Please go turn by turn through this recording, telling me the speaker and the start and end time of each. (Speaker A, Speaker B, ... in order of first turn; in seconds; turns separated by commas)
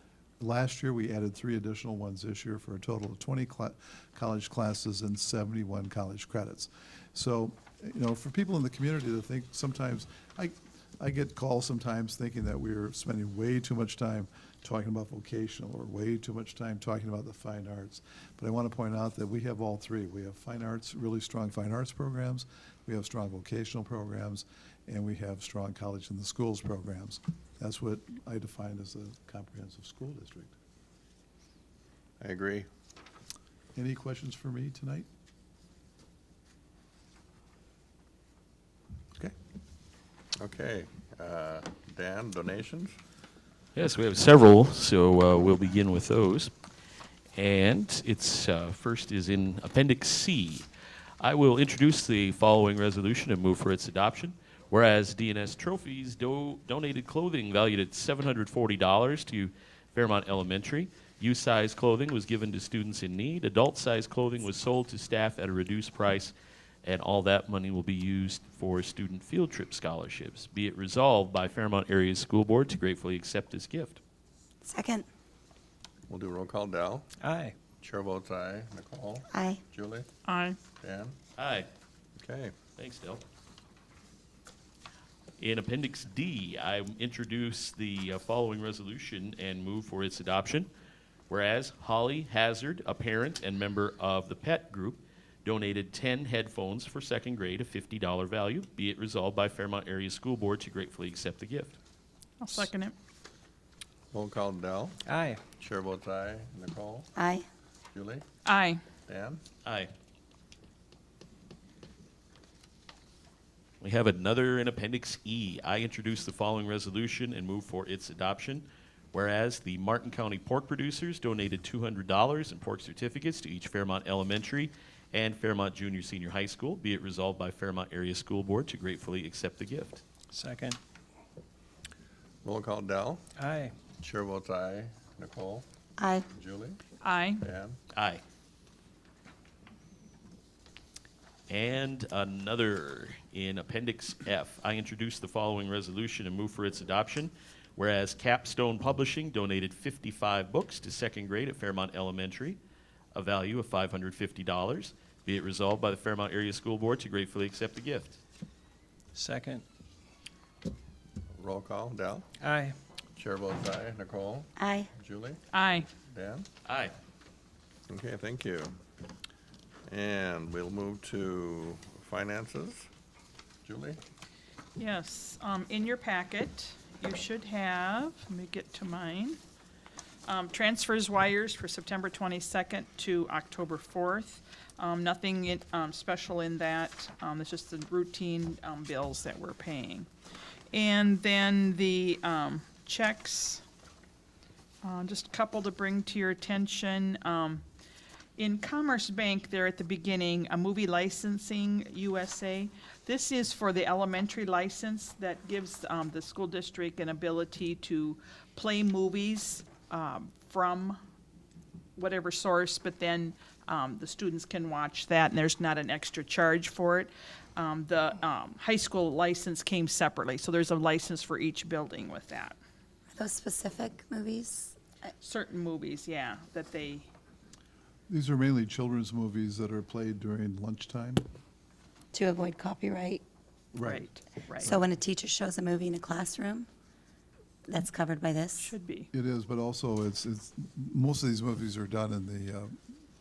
Speaker A: 0.4-30.5, Speaker B: 32.2-32.7, Speaker A: 33.8-35.1, Speaker B: 40.4-43.0, Speaker C: 43.8-46.5, Speaker C: 47.4-50.7, Speaker C: 51.2-66.3, Speaker C: 66.8-74.0, Speaker D: 74.6-75.1, Speaker B: 76.1-77.1, Speaker E: 77.2-77.6, Speaker B: 77.8-80.1, Speaker D: 79.3-79.6, Speaker F: 80.2-80.6, Speaker B: 80.8-81.2, Speaker C: 81.4-81.7, Speaker B: 82.2-82.5, Speaker C: 82.8-83.2, Speaker C: 85.4-90.7, Speaker C: 91.3-101.8, Speaker F: 102.4-103.0, Speaker B: 104.1-105.0, Speaker E: 105.1-105.4, Speaker B: 105.6-107.1, Speaker D: 107.2-107.5, Speaker B: 107.9-108.2, Speaker F: 108.5-108.8, Speaker B: 109.1-109.4, Speaker C: 109.6-109.9, Speaker C: 113.8-130.0, Speaker E: 130.4-130.8, Speaker B: 132.4-133.2, Speaker E: 133.4-133.7, Speaker B: 134.0-135.7, Speaker D: 136.0-136.3, Speaker B: 136.3-136.8, Speaker F: 137.0-137.4, Speaker B: 137.4-137.8, Speaker C: 137.9-138.2, Speaker C: 141.5-152.6, Speaker C: 153.1-158.2, Speaker E: 159.2-159.7, Speaker B: 161.4-162.3, Speaker E: 162.4-162.8, Speaker B: 163.2-165.4, Speaker D: 164.6-164.9, Speaker F: 165.5-165.9, Speaker B: 166.1-166.5, Speaker C: 166.7-166.9, Speaker B: 167.9-168.7, Speaker B: 169.9-172.9, Speaker B: 173.7-174.0, Speaker F: 174.8-179.4, Speaker F: 180.2-190.1, Speaker F: 190.7-193.6, Speaker F: 194.8-197.6, Speaker F: 198.4-211.0, Speaker F: 212.0-222.6, Speaker D: 223.1-225.1, Speaker F: 225.2-227.1, Speaker A: 228.1-231.2, Speaker D: 232.1-233.2, Speaker A: 233.7-234.1, Speaker F: 233.8-234.8, Speaker D: 234.6-236.7, Speaker D: 237.7-238.7, Speaker F: 238.6-239.1, Speaker A: 239.1-242.8